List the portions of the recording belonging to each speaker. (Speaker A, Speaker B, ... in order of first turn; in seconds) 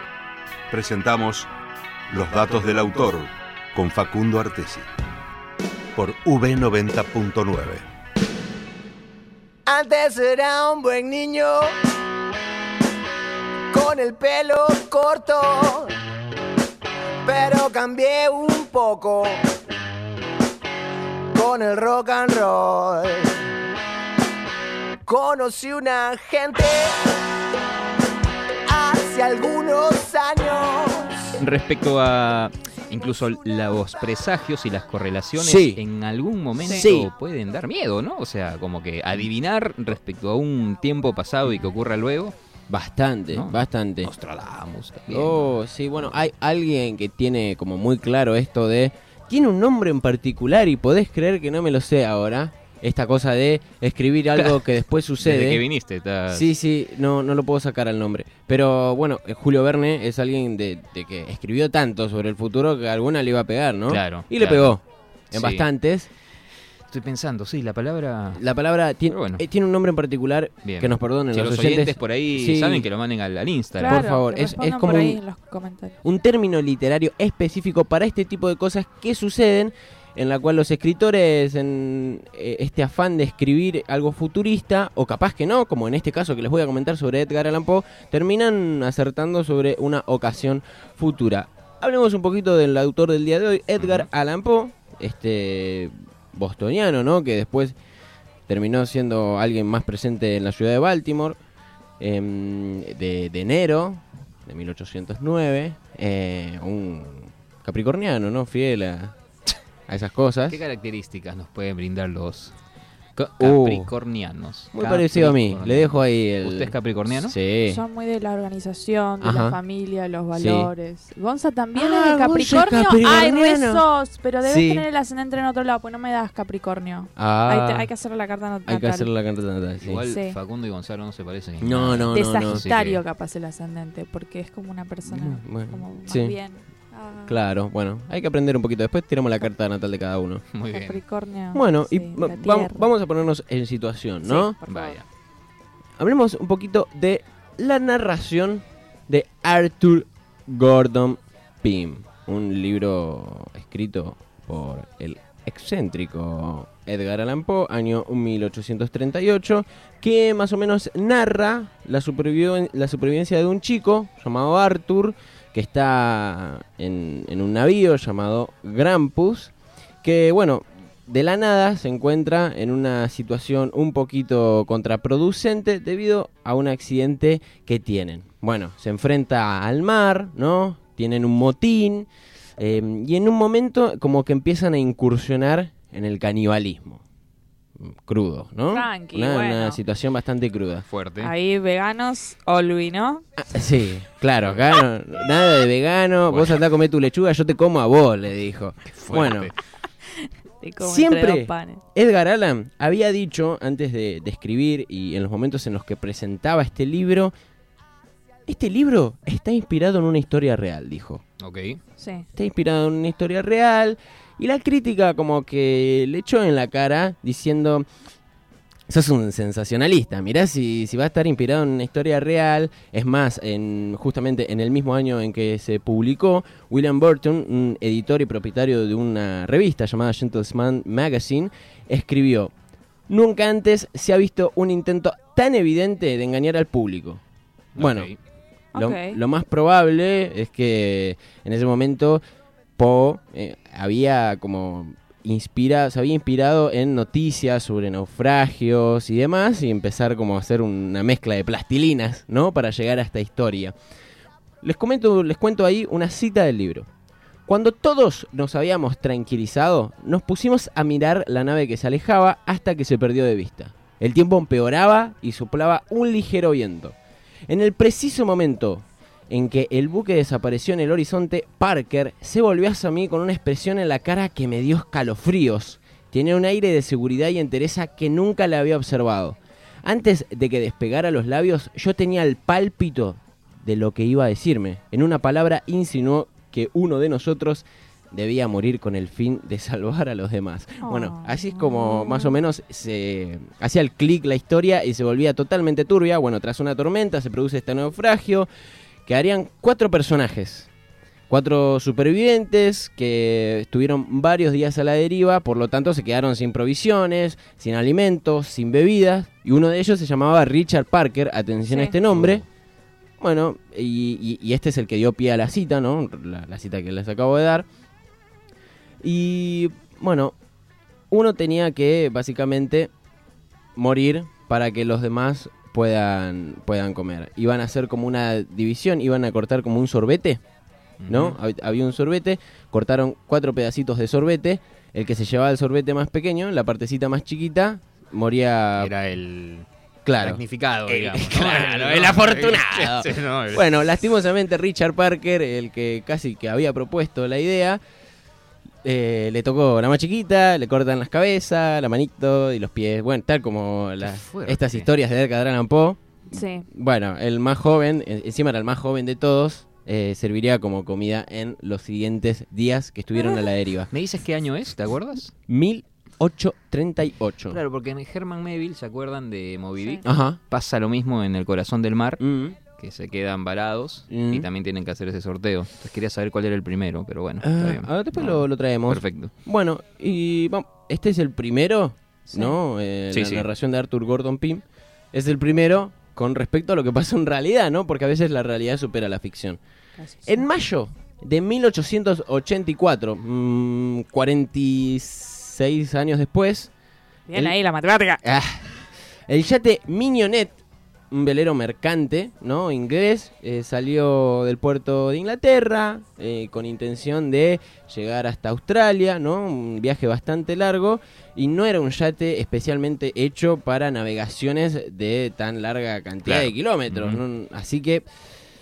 Speaker A: 0.7-1.5, 2.1-4.9, 6.0-7.8
Speaker B: 9.7-11.7, 13.7-15.9, 17.2-19.4, 21.3-23.3, 25.1-27.0, 28.7-31.4, 118.5-120.0, 120.6-122.3, 122.8-125.1, 133.8-134.1, 188.7-189.3, 192.1-193.0, 200.8-201.4, 356.4-356.6, 397.6-398.1
Speaker C: 31.4-42.3, 43.3-45.5, 54.3-54.6, 55.2-56.5, 63.9-64.8, 65.3-65.7, 66.9-68.4, 69.1-69.4, 70.6-74.1, 93.8-94.1, 110.5-112.5, 113.1-117.3, 129.8-133.0, 140.5-141.0, 144.7-145.0, 190.9-191.3, 194.4-194.8, 196.3-196.6, 198.9-199.6, 211.4-211.8, 237.8-238.2, 312.0-312.4, 331.0-331.4, 338.8-339.7, 340.2-343.8, 354.0-354.9, 363.9-365.3, 367.5-372.2, 372.8-379.3, 383.1-383.4, 416.2-417.2
Speaker D: 35.4-35.8, 36.6-37.1, 42.7-44.1, 45.1-55.6, 56.3-66.1, 68.3-72.9, 73.8-75.2, 76.0-97.8, 98.5-101.4, 102.0-109.2, 109.9-110.6, 113.4-113.9, 114.7-117.8, 119.2-119.6, 120.3-120.7, 121.7-123.8, 124.4-124.9, 127.1-127.9, 128.7-130.0, 131.6-132.6, 135.1-136.3, 137.2-140.4, 141.5-144.6, 146.0-182.1, 182.6-187.0, 187.8-190.8, 193.4-199.5, 200.8-207.3, 208.4-211.2, 212.3-217.8, 218.9-232.5, 233.1-237.2, 237.8-238.1, 238.8-242.2, 242.8-253.7, 254.6-256.9, 257.5-267.0, 267.5-298.5, 299.0-300.7, 301.3-312.4, 313.2-317.6, 319.0-320.4, 321.1-322.9, 323.8-330.4, 331.1-338.9, 340.0-347.8, 348.8-363.9, 365.5-367.6, 370.0-370.4, 372.2-372.6, 374.1-374.5, 377.4-389.6, 390.2-396.7, 398.2-400.6, 401.1-418.1
Speaker E: 73.8-75.8, 117.7-120.4, 121.2-121.8, 123.7-127.0, 127.6-129.0, 130.1-130.4, 132.5-135.1, 135.8-136.6, 140.8-142.7, 144.3-145.0, 189.0-189.7, 191.2-193.0, 201.5-201.8, 397.3-397.6